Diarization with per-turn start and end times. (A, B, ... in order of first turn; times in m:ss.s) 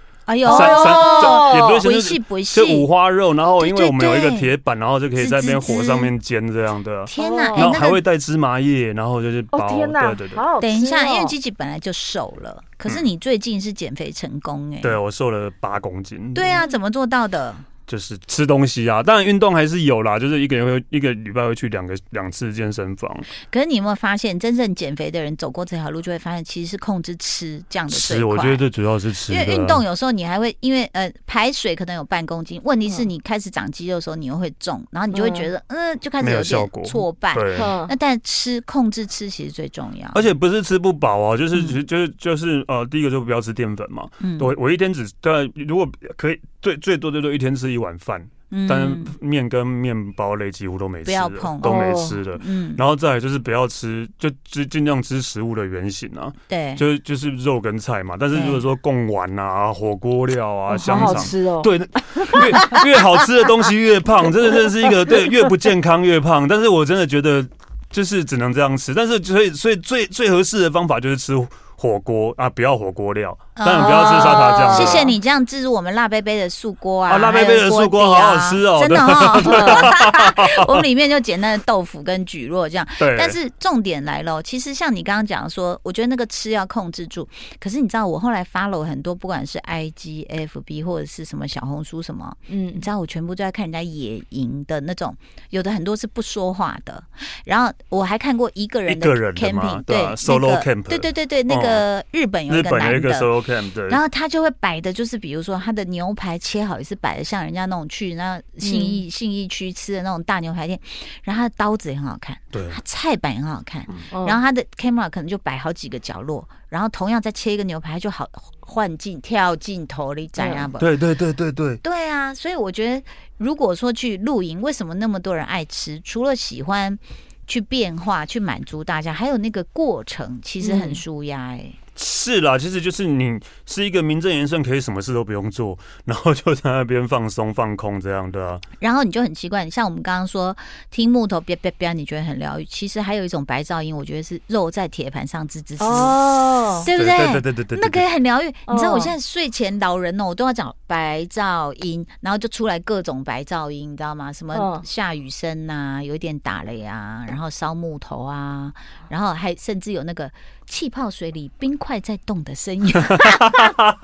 0:00.3-0:02.9 A
0:00.4-0:01.8 B
0:00.4-0:10.4 C
0:03.6-0:04.5 A
0:05.2-0:06.1 A
0:07.1-0:08.0 A
0:07.2-0:07.7 B
0:09.5-0:11.3 B
0:10.6-0:15.0 A
0:14.8-0:16.6 C
0:16.3-0:17.6 A
0:17.9-0:23.3 C
0:23.5-0:28.6 A
0:27.9-0:29.8 C
0:29.3-0:40.2 A
0:35.1-0:35.5 B
0:36.2-0:37.7 C
0:37.6-0:37.9 B
0:40.1-1:15.1 C
0:44.2-0:44.5 A
0:48.5-0:49.1 A
0:51.0-0:52.8 A
0:51.6-0:52.2 B
0:56.5-0:56.8 A
1:00.7-1:01.7 B
1:02.2-1:02.7 B
1:13.6-1:43.3 A
1:13.8-1:15.1 B
1:17.1-1:20.8 C
1:19.4-1:19.9 B
1:23.0-1:23.4 C
1:32.5-1:32.8 B
1:38.9-1:41.8 C
1:42.5-1:44.0 C
1:43.9-2:00.9 A
1:48.6-1:49.0 B
1:52.5-1:52.8 C
1:54.1-1:54.4 B
2:00.4-2:00.7 B
2:00.8-2:01.8 C
2:01.8-2:11.8 A
2:10.6-2:11.0 B
2:12.0-2:18.6 C
2:18.8-2:26.2 A
2:25.8-2:26.9 B
2:26.8-2:43.7 A
2:26.8-2:28.0 C
2:28.7-2:29.2 B
2:34.5-2:34.8 B